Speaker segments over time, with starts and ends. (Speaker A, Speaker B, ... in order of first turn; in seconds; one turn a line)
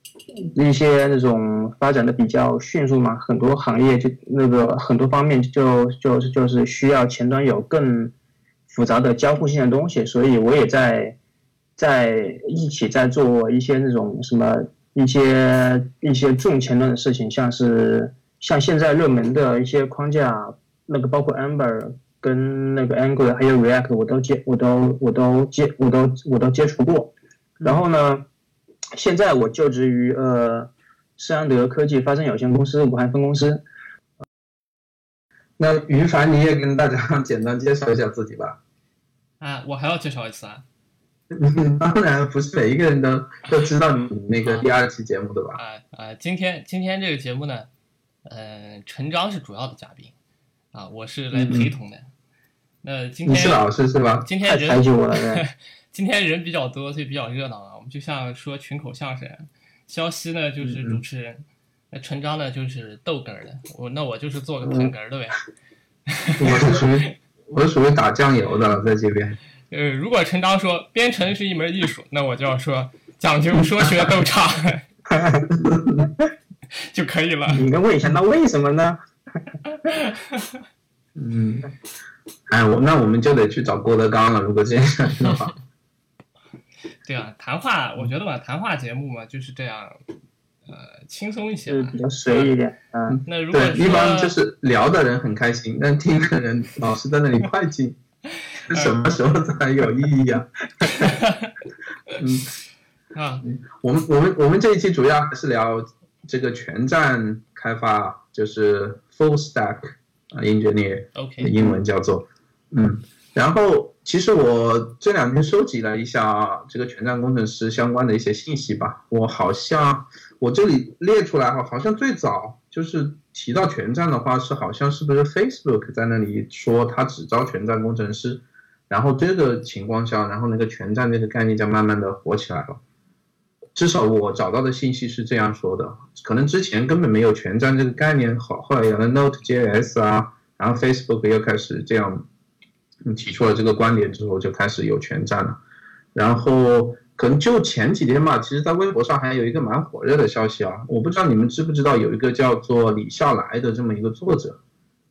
Speaker A: 0.5-8.1
Speaker A: 8.7-11.2
Speaker A: 11.8-28.2
Speaker A: 28.9-33.6
Speaker B: 35.6-38.6
Speaker C: 39.4-40.6
Speaker B: 41.3-45.6
Speaker C: 45.6-47.7
Speaker C: 48.2-50.1
Speaker C: 50.7-52.1
Speaker B: 51.3-51.7
Speaker C: 52.8-53.6
Speaker B: 53.2-54.2
Speaker C: 54.2-65.4
Speaker A: 54.4-55.4
Speaker B: 60.6-61.0
Speaker C: 66.1-66.7
Speaker A: 66.4-67.1
Speaker B: 66.4-69.4
Speaker C: 69.7-74.8
Speaker A: 75.1-75.4
Speaker B: 75.5-76.1
Speaker C: 76.8-77.6
Speaker A: 77.5-79.0
Speaker C: 79.8-80.6
Speaker B: 81.2-81.7
Speaker B: 82.5-85.5
Speaker C: 87.0-90.0
Speaker C: 90.7-92.5
Speaker A: 91.7-93.2
Speaker B: 93.1-98.0
Speaker C: 93.2-94.3
Speaker B: 98.7-101.1
Speaker C: 100.9-101.5
Speaker B: 102.2-102.5
Speaker C: 103.1-103.5
Speaker B: 103.4-132.8
Speaker C: 111.1-111.5
Speaker B: 133.7-142.2
Speaker B: 143.0-145.6
Speaker B: 146.1-154.6